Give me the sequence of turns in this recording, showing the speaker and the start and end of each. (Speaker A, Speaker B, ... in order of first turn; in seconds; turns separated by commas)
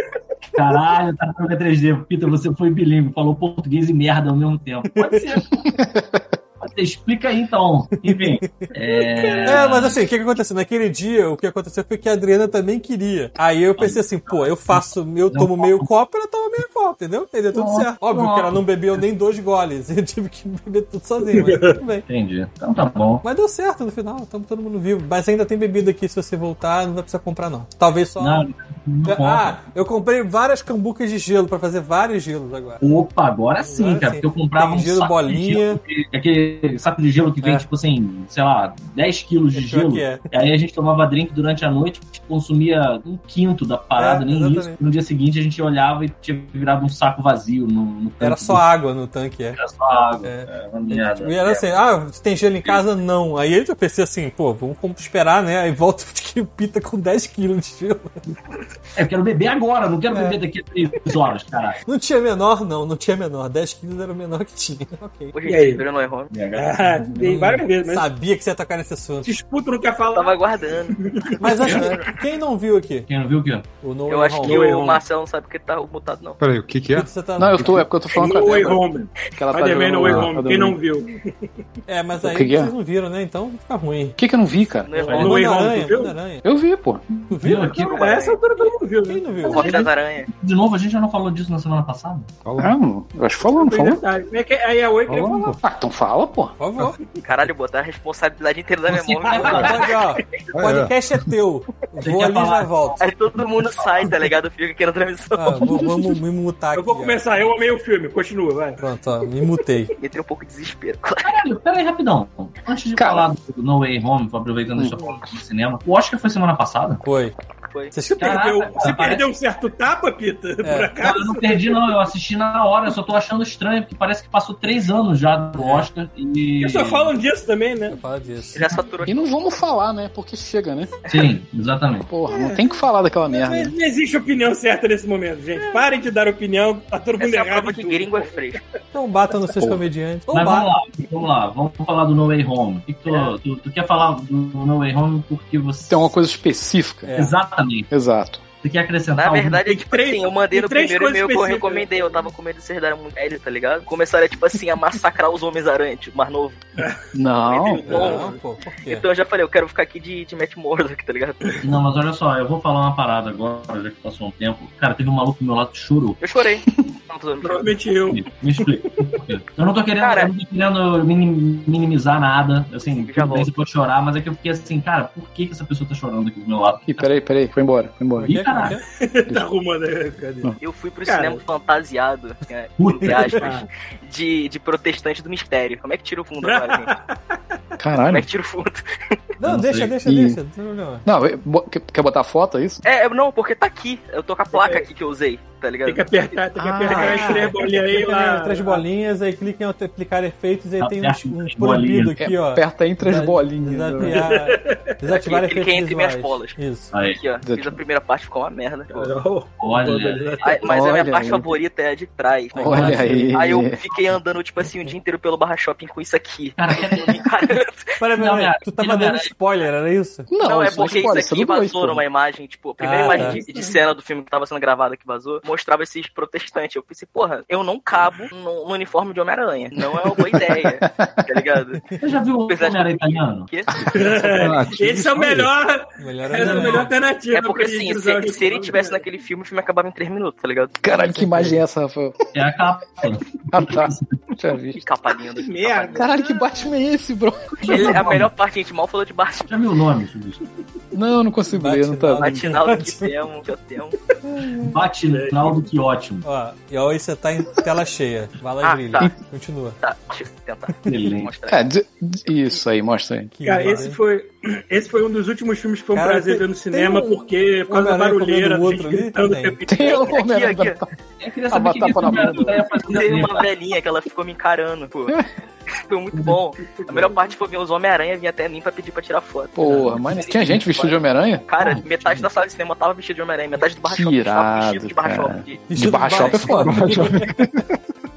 Speaker A: 0.5-5.7, Speaker B: 4.9-5.2, Speaker C: 5.7-6.2, Speaker A: 6.6-10.0, Speaker B: 8.0-8.7, Speaker D: 8.8-9.6, Speaker B: 9.4-22.0, Speaker A: 13.8-15.9, Speaker A: 17.5-18.6, Speaker D: 21.3-21.8, Speaker A: 22.1-23.2, Speaker B: 23.2-28.4, Speaker A: 28.2-29.6, Speaker B: 29.0-32.8, Speaker A: 32.8-48.6, Speaker B: 33.6-35.8, Speaker B: 37.4-37.7, Speaker B: 39.5-40.2, Speaker B: 44.0-44.8, Speaker B: 48.2-49.6, Speaker A: 49.5-51.7, Speaker B: 50.2-58.1, Speaker A: 58.9-61.8, Speaker B: 61.9-65.3, Speaker E: 65.3-66.3, Speaker D: 65.5-65.8, Speaker A: 66.3-67.1, Speaker D: 66.5-68.1, Speaker B: 67.1-69.3, Speaker D: 69.2-71.9, Speaker E: 70.1-71.0, Speaker B: 71.4-73.1, Speaker A: 71.6-72.0, Speaker A: 73.1-73.7, Speaker B: 73.8-74.6, Speaker E: 74.1-76.4, Speaker D: 74.4-75.0, Speaker F: 76.4-77.8, Speaker B: 76.9-77.8, Speaker C: 77.4-78.8, Speaker D: 78.1-81.2, Speaker C: 79.3-80.8, Speaker B: 81.9-84.2, Speaker C: 82.2-82.7, Speaker C: 84.2-84.9, Speaker E: 84.8-85.4, Speaker B: 85.0-86.4, Speaker A: 85.0-85.4, Speaker D: 85.1-86.2, Speaker C: 86.4-87.3, Speaker B: 87.3-87.8, Speaker A: 87.4-88.1, Speaker D: 87.6-89.9, Speaker E: 87.8-88.4, Speaker B: 89.0-89.9, Speaker E: 89.4-90.3, Speaker A: 90.3-92.3, Speaker F: 92.4-92.7, Speaker C: 92.6-94.0, Speaker D: 93.5-95.6, Speaker F: 95.1-95.5, Speaker C: 95.6-96.5, Speaker B: 96.6-97.0, Speaker E: 97.2-100.0, Speaker A: 98.8-100.0, Speaker B: 99.3-103.0, Speaker F: 100.5-101.3, Speaker A: 102.0-104.1, Speaker E: 103.0-105.8, Speaker B: 105.3-107.2, Speaker D: 106.7-108.8, Speaker B: 108.8-109.9, Speaker E: 110.0-111.4, Speaker A: 111.2-117.0, Speaker C: 112.9-113.3, Speaker C: 114.7-115.0, Speaker B: 117.0-117.3, Speaker B: 117.9-118.4, Speaker D: 118.1-121.6, Speaker A: 118.2-119.3, Speaker B: 120.6-120.9, Speaker A: 121.0-127.1, Speaker B: 125.6-125.9, Speaker D: 126.6-128.0, Speaker B: 127.9-128.9, Speaker E: 128.5-129.2, Speaker C: 129.0-130.9, Speaker A: 131.1-132.1, Speaker C: 132.1-133.7, Speaker D: 132.3-132.6, Speaker D: 133.3-138.6, Speaker E: 137.2-138.6, Speaker B: 138.9-140.7, Speaker C: 139.6-139.8, Speaker A: 140.3-146.1, Speaker C: 145.9-147.1, Speaker B: 147.1-147.4, Speaker A: 147.1-147.9, Speaker C: 147.9-148.4, Speaker A: 148.6-149.6, Speaker E: 149.2-156.6, Speaker D: 149.7-152.3, Speaker C: 157.1-158.0, Speaker E: 157.4-158.3, Speaker D: 157.5-158.4, Speaker B: 157.9-159.0, Speaker E: 158.8-161.6, Speaker A: 161.6-166.2, Speaker E: 166.2-167.8, Speaker D: 167.4-168.3, Speaker A: 168.1-177.0, Speaker E: 170.0-170.3, Speaker E: 172.8-173.5, Speaker C: 176.9-178.7, Speaker B: 178.2-178.8, Speaker A: 178.2-178.8, Speaker D: 178.9-180.5, Speaker E: 180.6-186.9, Speaker D: 181.0-181.4, Speaker A: 182.8-183.5, Speaker D: 183.2-183.7, Speaker D: 186.4-187.2, Speaker C: 187.8-188.3, Speaker E: 188.1-189.2, Speaker B: 189.4-191.0, Speaker A: 189.4-189.9, Speaker C: 190.0-190.4, Speaker C: 191.0-192.8, Speaker E: 192.8-196.0, Speaker D: 194.5-194.9, Speaker D: 195.8-198.8, Speaker C: 196.6-197.5, Speaker B: 196.9-206.9, Speaker A: 200.8-202.1, Speaker C: 202.2-204.2, Speaker D: 204.0-204.9, Speaker E: 205.1-206.6, Speaker A: 206.9-207.2, Speaker E: 207.1-209.1, Speaker C: 207.4-207.8, Speaker D: 208.9-210.7, Speaker A: 209.6-210.6, Speaker E: 210.4-217.9, Speaker C: 210.7-211.5, Speaker B: 212.6-213.4, Speaker C: 212.6-213.8, Speaker A: 216.6-217.3, Speaker B: 218.0-220.3, Speaker A: 218.1-219.3, Speaker C: 220.3-222.0, Speaker E: 220.4-231.8, Speaker B: 222.8-223.4, Speaker D: 222.9-223.7, Speaker C: 230.1-231.3, Speaker A: 232.0-233.5, Speaker E: 232.5-233.8, Speaker D: 233.9-239.0, Speaker F: 234.1-235.5, Speaker B: 236.0-236.9, Speaker E: 236.4-240.8, Speaker C: 240.8-242.2, Speaker B: 240.9-241.6, Speaker A: 242.3-244.1, Speaker C: 243.5-244.8, Speaker E: 244.8-246.1, Speaker D: 245.4-246.2, Speaker C: 245.9-248.2, Speaker A: 247.6-248.3, Speaker E: 247.7-249.5, Speaker A: 249.5-250.4, Speaker C: 250.9-252.5, Speaker B: 251.5-253.1, Speaker E: 252.2-253.9, Speaker B: 254.2-254.7, Speaker A: 254.6-256.2, Speaker D: 255.0-255.6, Speaker B: 256.2-259.8, Speaker E: 258.6-259.1, Speaker E: 259.8-261.6, Speaker A: 260.9-261.3, Speaker C: 261.5-263.4, Speaker B: 263.4-264.0, Speaker D: 263.4-270.1, Speaker B: 265.9-269.6, Speaker C: 269.7-270.9, Speaker E: 269.8-270.8, Speaker A: 271.2-273.5, Speaker C: 271.5-272.7, Speaker E: 272.9-275.2, Speaker E: 275.7-285.6, Speaker A: 276.1-276.9, Speaker C: 279.6-281.8, Speaker A: 279.6-280.5, Speaker A: 281.6-282.2, Speaker C: 283.9-287.1, Speaker B: 285.7-287.4, Speaker F: 286.5-287.7